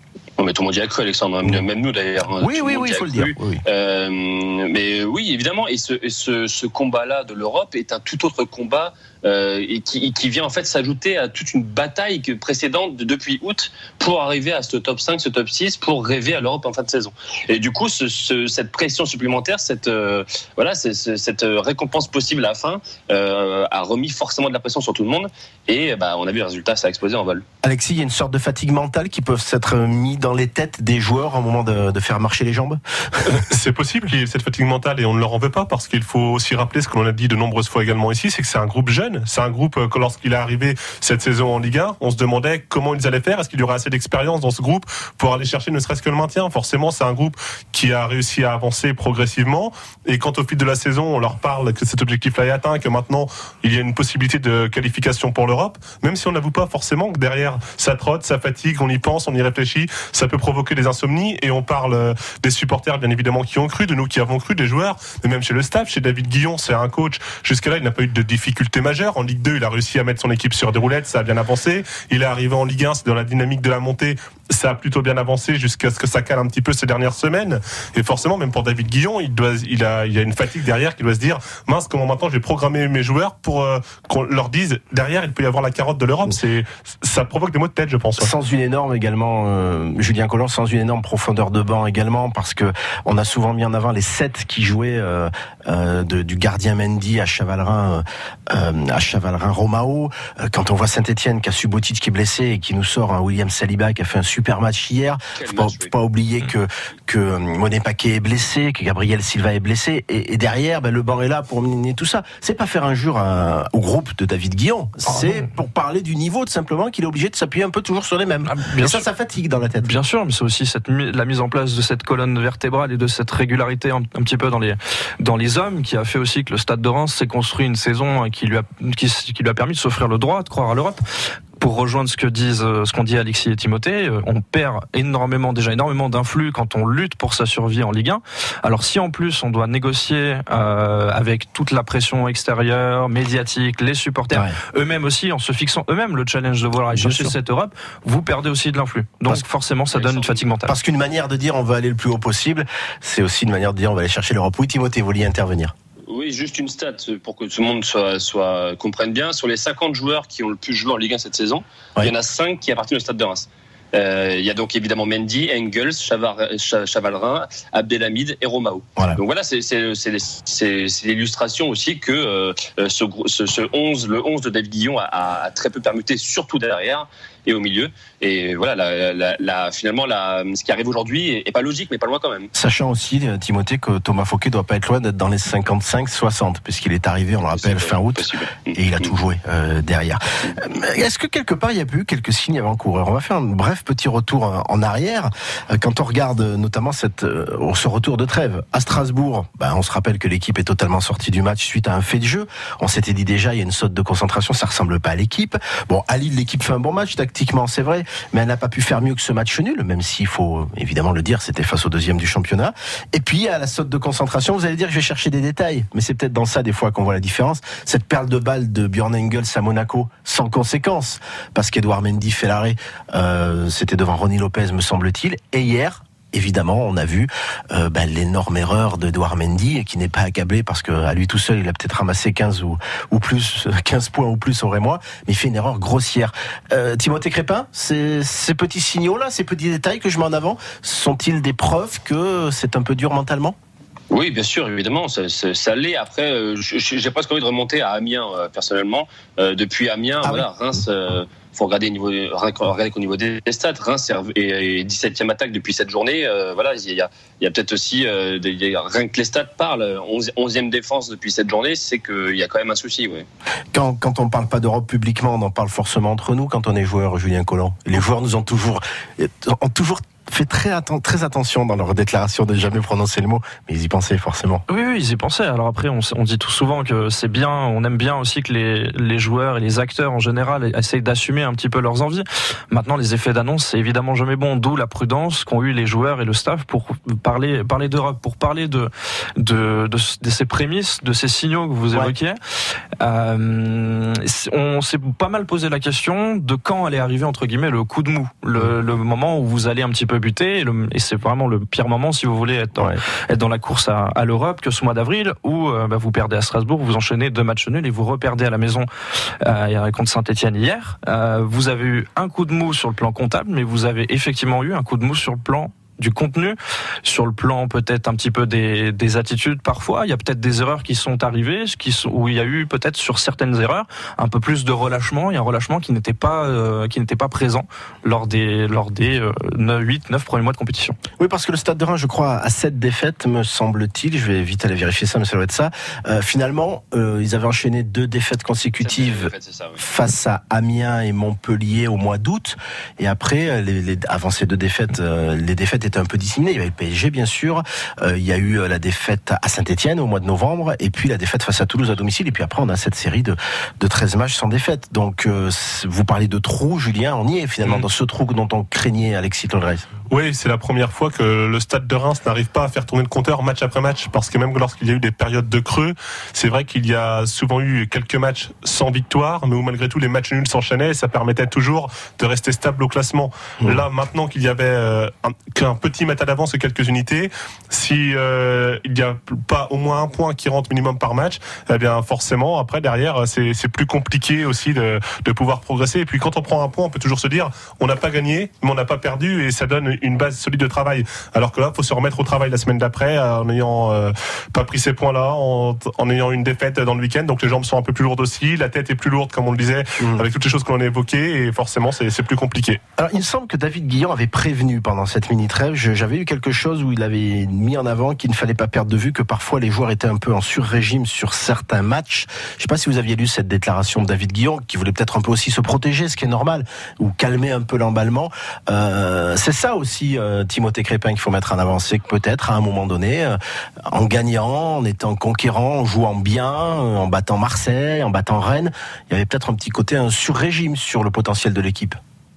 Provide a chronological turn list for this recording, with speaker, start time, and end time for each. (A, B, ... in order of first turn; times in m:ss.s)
0:00.4-0:27.4 A
0:02.4-0:03.6 B
0:27.6-0:33.4 B
0:33.3-1:28.3 C
1:28.2-1:59.9 B
1:45.4-1:45.9 A
1:58.5-1:59.0 D
1:59.8-2:11.0 D
2:11.6-2:30.8 D
2:26.9-2:27.4 B
2:29.9-2:30.4 A
2:30.7-2:35.7 B
2:36.1-3:02.5 A
3:02.6-4:03.6 B
3:07.4-3:09.1 A
4:04.1-4:23.3 A
4:23.7-4:34.6 B
4:34.7-4:52.4 D
4:53.0-5:08.9 D
5:02.8-5:03.0 B
5:09.4-5:31.0 D
5:31.2-5:59.9 B
5:38.8-5:39.8 A
6:00.1-6:42.8 C
6:40.0-6:40.2 B
6:43.0-7:12.0 B